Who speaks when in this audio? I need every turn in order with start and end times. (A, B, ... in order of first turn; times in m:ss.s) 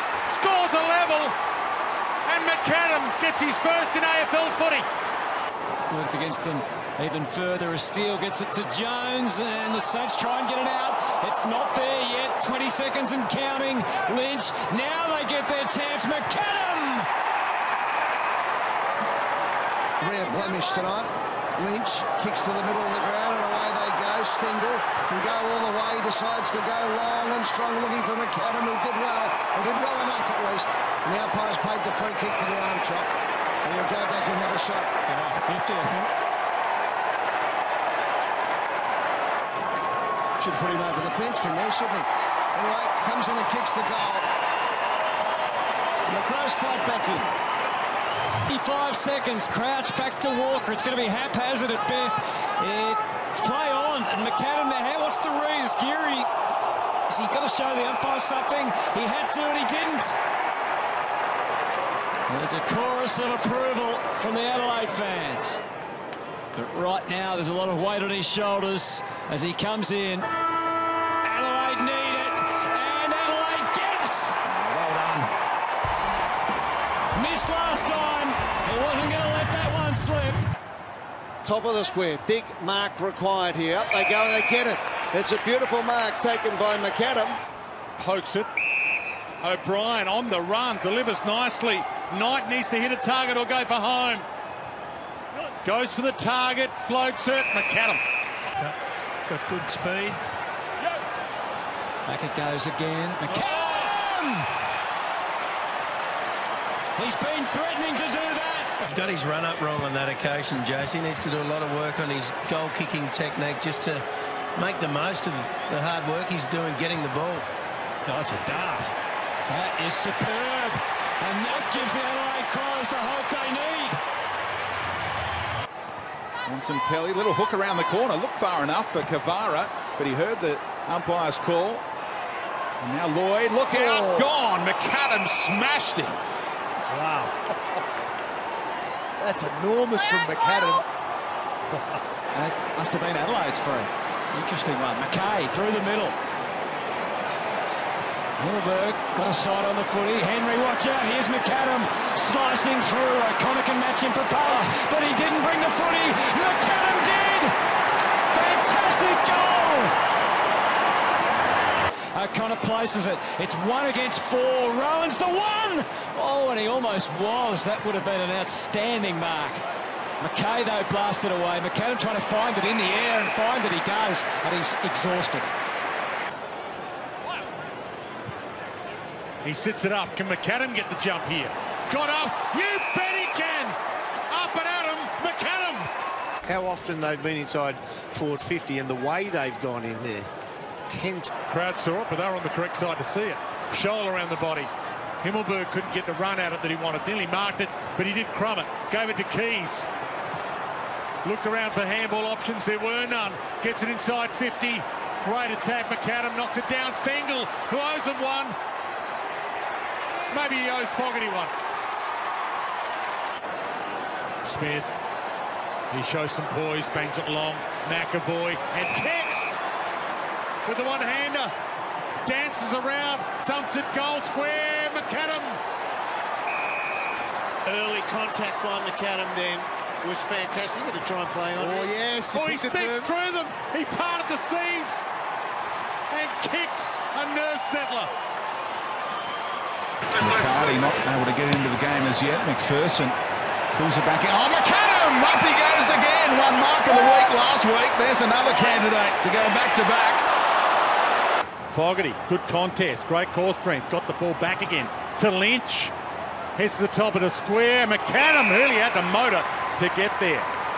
0:00.2-0:01.3 A
0:02.2-0:04.9 A
0:05.9-0:17.1 B
0:20.0-0:33.1 C
0:33.6-0:34.9 C
0:35.1-0:36.1 B
0:40.4-0:44.3 C
0:46.0-0:47.3 C
0:48.5-0:56.3 B
0:57.1-1:00.2 B
1:02.3-1:05.6 B
1:06.5-1:10.3 B
1:11.2-1:15.3 B
1:17.1-1:20.4 B
1:21.4-1:27.4 C
1:28.0-1:28.5 A
1:29.4-1:34.2 A
1:35.6-1:38.0 A
1:39.2-1:40.2 D
1:42.0-1:44.5 B
1:47.0-1:48.7 B
1:48.8-1:54.0 D
1:54.6-1:57.5 D
1:58.0-1:58.9 B
1:59.5-2:04.0 B
2:06.4-2:11.8 E
2:12.8-2:16.2 E
2:13.8-2:14.0 A
2:20.1-2:20.4 E
2:22.3-2:26.2 B
2:28.4-2:37.5 B
2:38.3-2:39.9 B
2:42.1-2:49.6 B
2:50.2-2:55.5 B
2:59.4-3:03.8 A
3:04.3-3:05.9 A
3:06.4-3:10.3 F
3:10.9-3:11.3 F
3:11.5-3:14.7 A
3:15.2-3:19.9 A
3:21.2-3:28.6 A
3:30.3-3:31.5 A
3:34.4-3:35.0 A
3:35.9-3:39.6 A
3:40.6-3:41.5 A
3:42.2-3:45.6 A
3:47.6-3:52.1 F
3:51.6-3:53.0 C
3:52.3-3:55.0 A
3:56.1-3:58.1 A
4:00.1-4:03.2 E
4:03.7-4:10.2 E
4:11.7-4:15.9 A
4:16.6-4:20.5 A